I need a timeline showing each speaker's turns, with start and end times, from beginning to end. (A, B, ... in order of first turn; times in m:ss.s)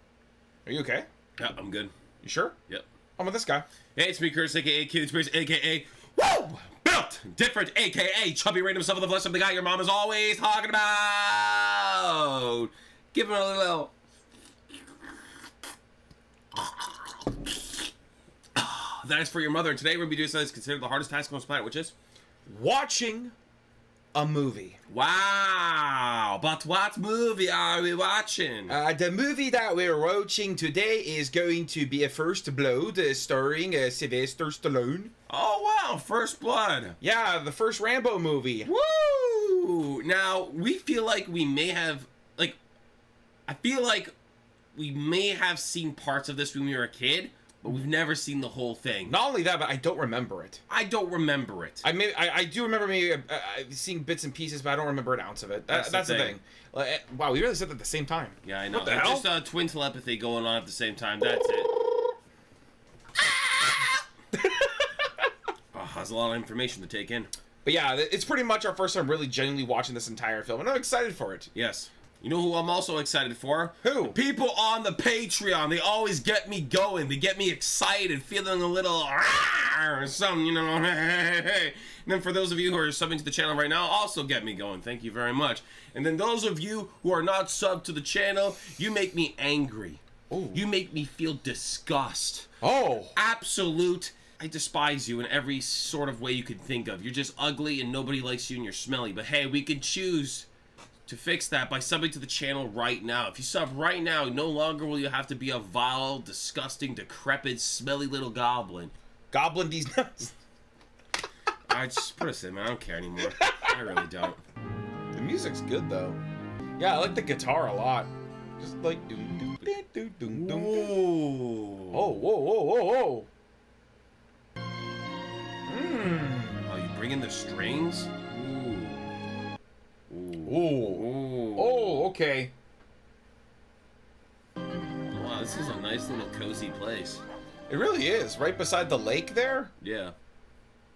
0:00.7-0:01.1 A
0:01.4-0:01.9 B
0:02.2-0:02.6 A
0:03.2-0:03.7 A
0:04.0-0:13.9 B
0:16.6-0:17.1 B
0:18.6-0:21.9 B
0:22.5-0:23.4 A
0:24.1-0:24.8 A
0:24.9-0:28.7 B
0:28.7-0:35.1 A
0:35.3-0:37.0 B
0:37.0-0:38.7 A
0:38.7-0:42.6 B
0:43.5-0:44.1 B
0:44.8-0:49.2 B
0:49.1-0:50.6 A
0:50.7-0:51.8 B
0:51.8-0:59.3 A
0:55.7-0:56.4 B
0:58.4-1:01.8 B
1:04.3-1:05.1 A
1:05.7-1:07.3 B
1:07.6-1:11.5 A
1:11.5-1:30.0 B
1:13.8-1:14.2 A
1:30.3-1:30.6 A
1:30.5-1:32.5 B
1:32.6-1:33.1 A
1:33.2-1:40.5 B
1:41.1-1:48.9 B
1:49.3-1:50.3 A
1:51.7-1:54.4 B
1:53.3-1:53.7 A
1:55.1-1:56.2 A
1:56.8-2:00.9 A
2:00.3-2:02.1 B
2:01.9-2:03.3 A
2:05.7-2:06.6 A
2:06.6-2:09.1 B
2:10.1-2:12.1 B
2:10.5-2:12.5 A
2:15.1-2:17.2 B
2:17.7-2:19.7 A
2:19.8-2:20.2 B